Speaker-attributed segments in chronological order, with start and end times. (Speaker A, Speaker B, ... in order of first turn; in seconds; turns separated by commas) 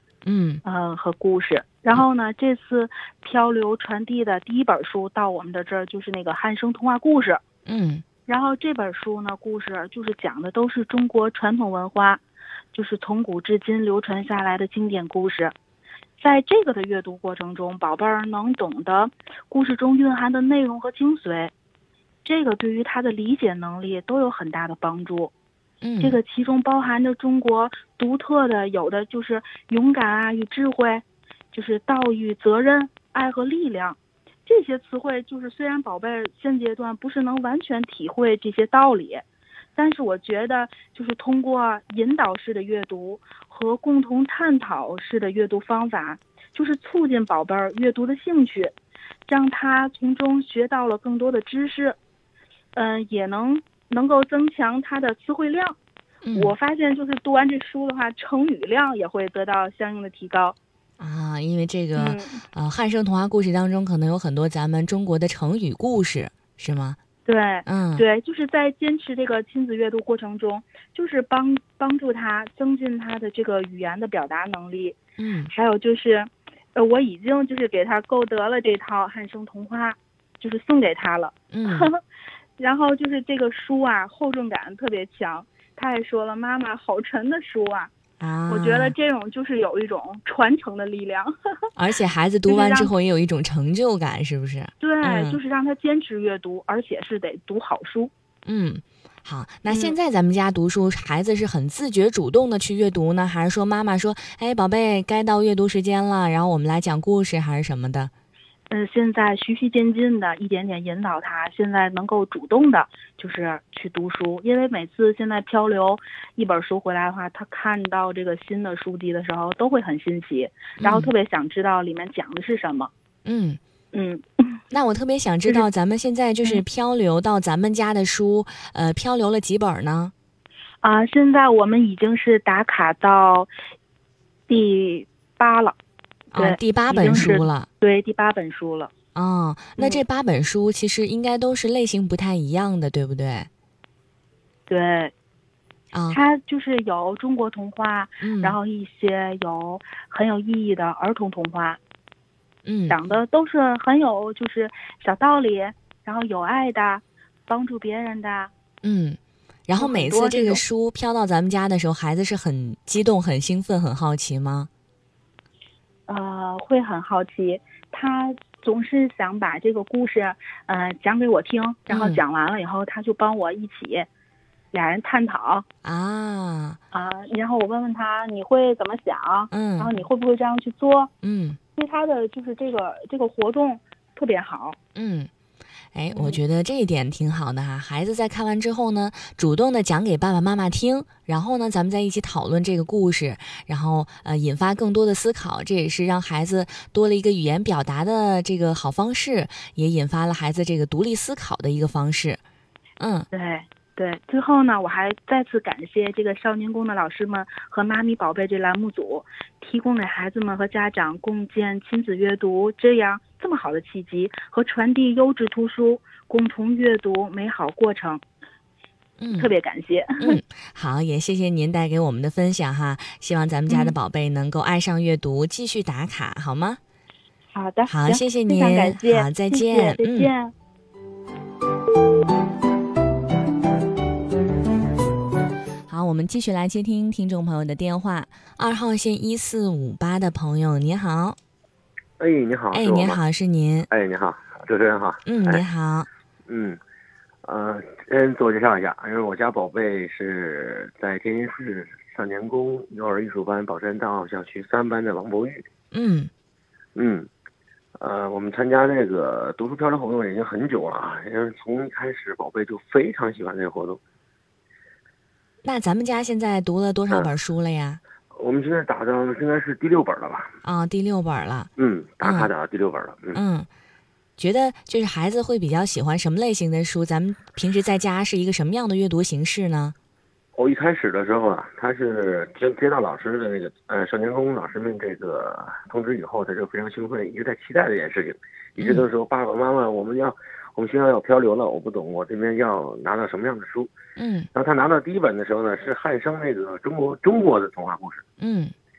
Speaker A: 0.2-0.6, Speaker B: 0.6-7.4, Speaker A: 7.7-8.0, Speaker B: 8.3-12.2, Speaker B: 12.7-15.5, Speaker B: 16.2-21.5, Speaker B: 22.2-25.3, Speaker A: 25.8-26.2, Speaker B: 26.0-39.2, Speaker B: 39.8-48.7, Speaker B: 49.3-52.0, Speaker B: 52.8-55.8, Speaker A: 56.2-56.5, Speaker B: 56.3-60.5, Speaker A: 61.0-67.0, Speaker B: 61.9-62.4, Speaker B: 67.2-75.0, Speaker A: 67.6-68.0, Speaker A: 75.2-75.5, Speaker B: 75.5-82.0, Speaker A: 81.5-81.9, Speaker B: 82.6-87.9, Speaker A: 88.2-88.9, Speaker B: 88.5-91.3, Speaker A: 91.7-95.4, Speaker B: 92.5-92.9, Speaker B: 94.8-98.1, Speaker A: 98.5-108.1, Speaker B: 99.7-100.0, Speaker B: 108.7-122.9, Speaker A: 120.8-121.1, Speaker A: 123.2-123.6, Speaker B: 123.9-124.6, Speaker A: 124.7-130.1, Speaker B: 130.8-133.5, Speaker B: 134.5-135.8, Speaker A: 136.3-137.7, Speaker B: 136.3-138.9, Speaker A: 139.1-143.5, Speaker B: 144.7-145.1, Speaker A: 145.9-146.2, Speaker B: 146.1-151.8, Speaker A: 148.2-148.6, Speaker A: 152.6-153.0, Speaker B: 152.9-158.5, Speaker A: 158.8-164.7, Speaker B: 159.8-160.6, Speaker B: 166.1-174.1, Speaker A: 171.9-172.2, Speaker B: 174.7-175.6, Speaker A: 175.8-176.8, Speaker B: 176.9-181.1, Speaker A: 179.5-179.9, Speaker A: 181.2-181.6, Speaker B: 181.8-184.8, Speaker A: 184.9-185.3, Speaker A: 185.9-202.4, Speaker B: 186.1-186.4, Speaker A: 203.0-203.3, Speaker B: 203.3-218.2, Speaker A: 219.2-219.5, Speaker B: 219.3-220.4, Speaker A: 220.2-226.8, Speaker B: 223.7-223.9, Speaker B: 227.5-230.5, Speaker A: 227.9-230.3, Speaker A: 235.9-241.4, Speaker C: 242.2-243.2, Speaker A: 242.7-243.9, Speaker C: 243.9-245.6, Speaker A: 245.2-246.1, Speaker C: 246.5-246.8, Speaker C: 247.4-255.6, Speaker A: 255.9-256.3, Speaker C: 256.9-257.3, Speaker C: 258.0-264.0, Speaker A: 265.6-268.0, Speaker C: 268.4-270.5, Speaker A: 270.6-271.7, Speaker C: 271.8-273.4, Speaker A: 272.2-272.5, Speaker A: 273.3-273.7, Speaker A: 274.4-279.9, Speaker C: 280.6-293.9, Speaker A: 288.8-289.1, Speaker A: 294.1-294.5, Speaker C: 294.5-298.2, Speaker A: 298.4-298.7